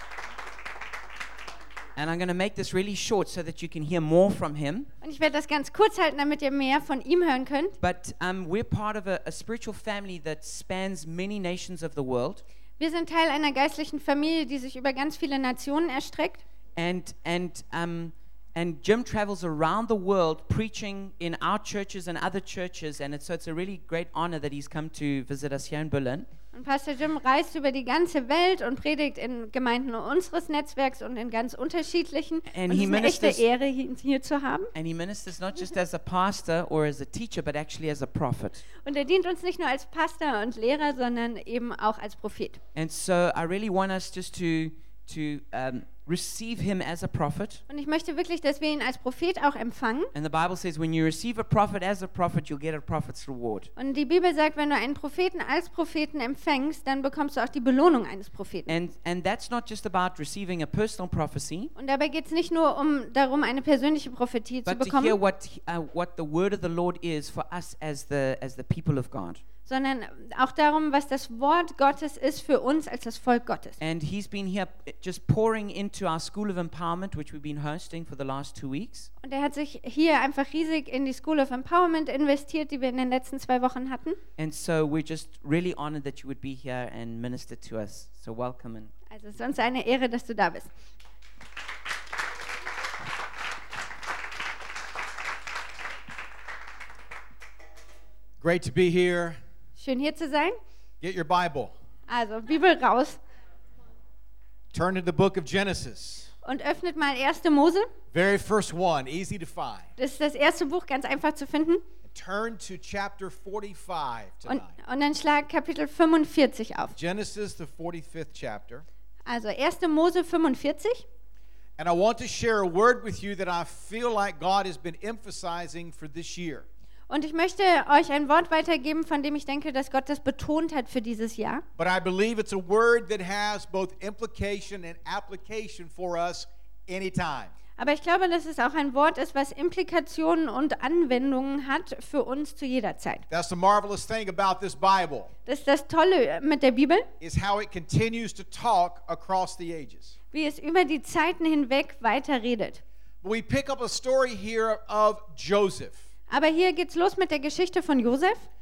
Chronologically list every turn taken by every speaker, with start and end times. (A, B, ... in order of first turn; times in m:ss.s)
0:02.0-0:04.9 A
0:05.0-0:07.8 B
0:07.8-0:12.4 A
0:12.8-0:16.4 B
0:16.8-0:26.3 A
0:26.5-0:34.7 B
0:32.5-0:33.4 A
0:34.7-0:38.6 A
0:38.8-0:42.6 B
0:42.8-0:47.6 A
0:47.7-0:50.1 B
0:50.1-0:53.7 A
0:53.8-0:58.7 B
0:58.7-1:01.7 A
1:01.8-1:05.2 B
1:04.7-1:09.4 A
1:09.7-1:13.8 B
1:13.8-1:19.1 A
1:19.2-1:24.2 B
1:24.4-1:28.9 A
1:29.1-1:30.7 B
1:38.4-1:39.4 C
1:39.8-1:40.6 B
1:41.0-1:41.7 C
1:42.1-1:43.2 B
1:44.7-1:46.3 C
1:46.4-1:47.9 B
1:48.1-1:49.9 C
1:50.0-1:51.8 B
1:52.0-1:54.8 C
1:54.5-1:57.0 B
1:57.0-1:58.8 C
1:59.3-2:01.0 B
2:01.8-2:06.7 C
2:07.1-2:11.6 B
2:11.8-2:17.5 C
2:17.8-2:23.2 B
2:23.3-2:25.3 C
2:25.5-2:27.1 B
2:27.2-2:30.1 C
2:30.3-2:32.8 B
2:33.2-2:36.1 C
2:36.3-2:38.5 B